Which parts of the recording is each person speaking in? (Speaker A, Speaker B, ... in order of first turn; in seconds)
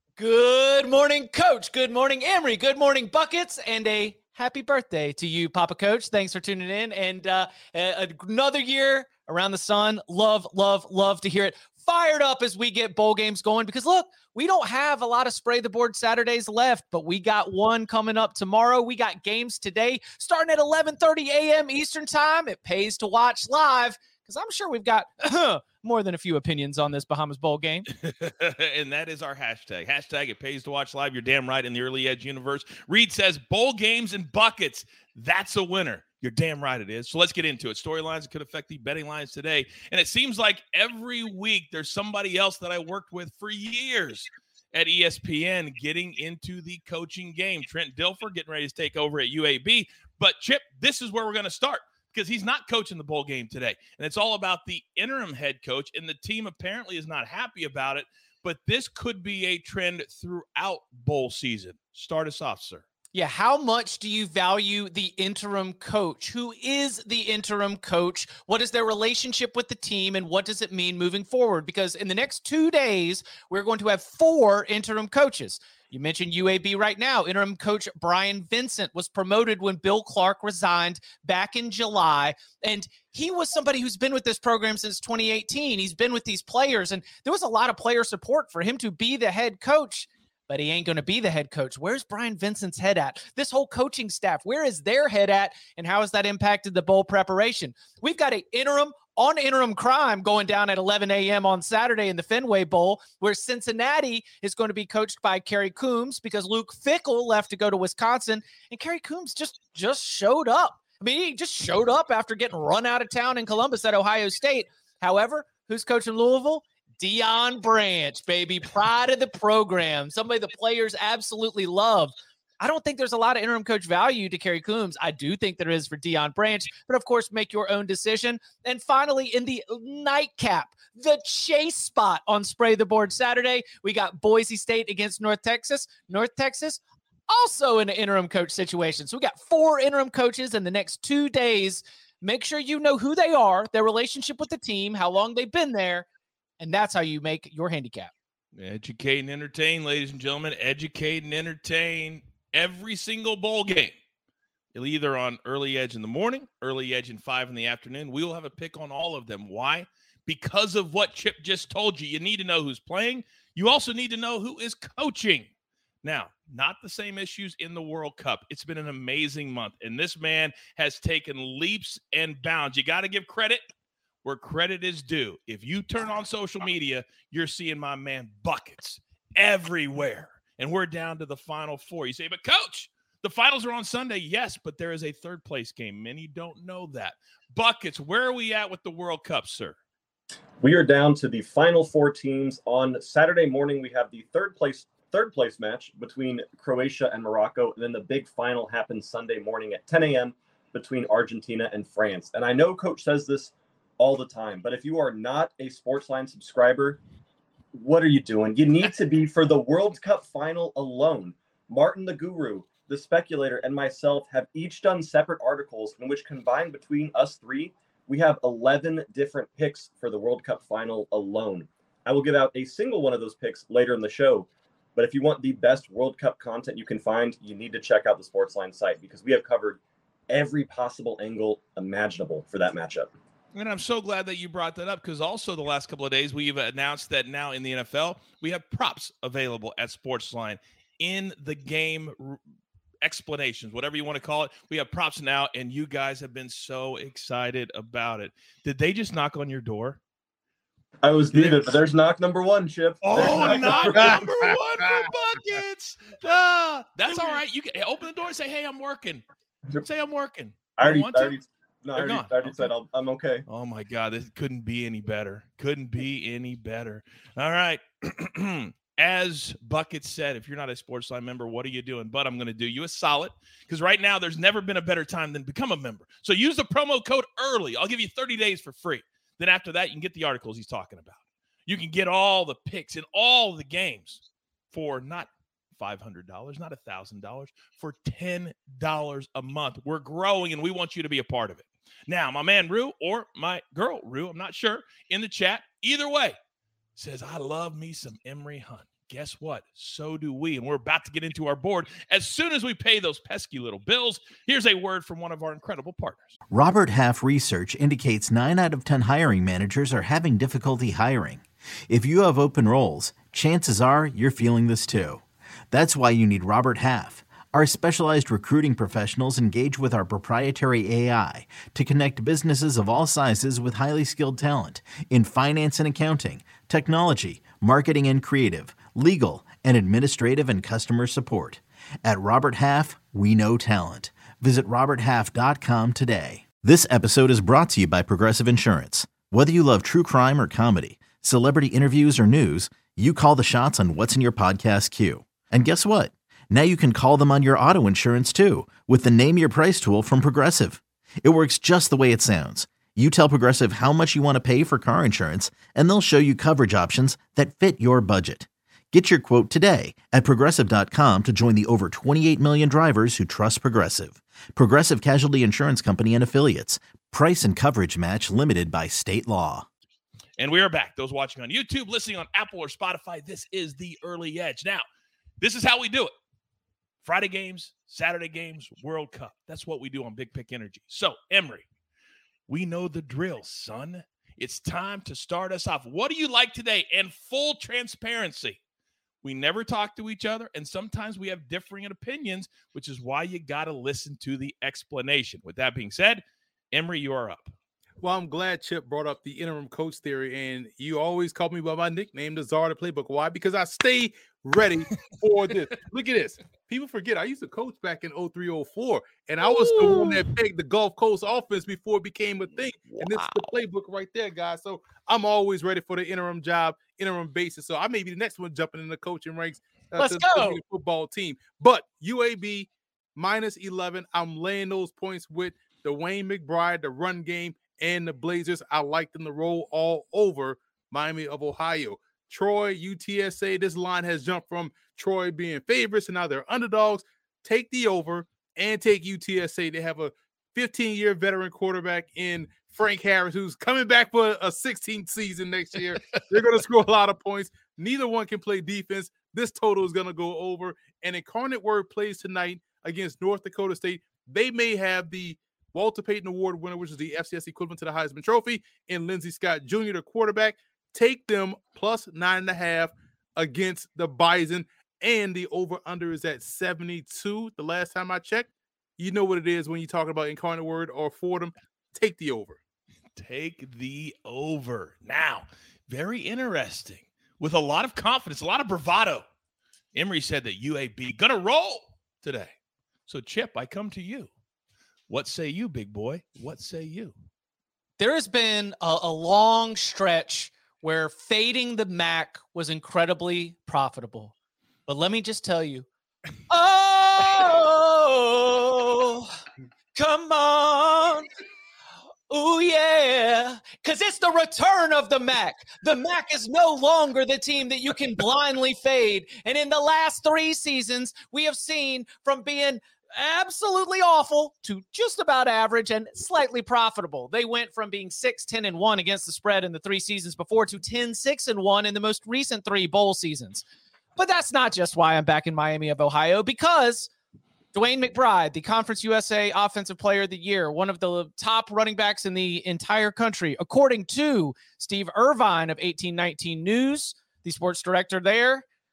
Speaker A: 0.2-27.9, 63.1-146.1, 146.6-148.1, 420.0-420.6, 488.0-494.3, 494.9-495.9, 496.5-499.3, 499.9-501.3, 502.3-523.6, 524.1-527.1, 527.7-538.6
Speaker B: 27.9-62.8, 148.6-153.9, 154.7-165.5, 166.0-173.6, 174.2-189.8, 233.5-242.4, 243.0-250.0, 251.3-251.7, 253.0-259.2, 259.8-261.4, 261.9-262.7, 263.5-296.4, 296.9-306.4, 370.4-374.8, 375.4-376.1, 377.0-381.6, 382.5-388.6, 389.2-397.5, 409.8-410.1, 412.9-413.4, 473.1-479.2, 479.9-482.5, 483.1-484.3, 485.1-487.1
Speaker C: 190.6-207.0, 207.7-233.1, 251.0-254.2, 260.8-263.4
Speaker D: 253.6-255.1, 398.0-472.6
Speaker E: 306.5-369.7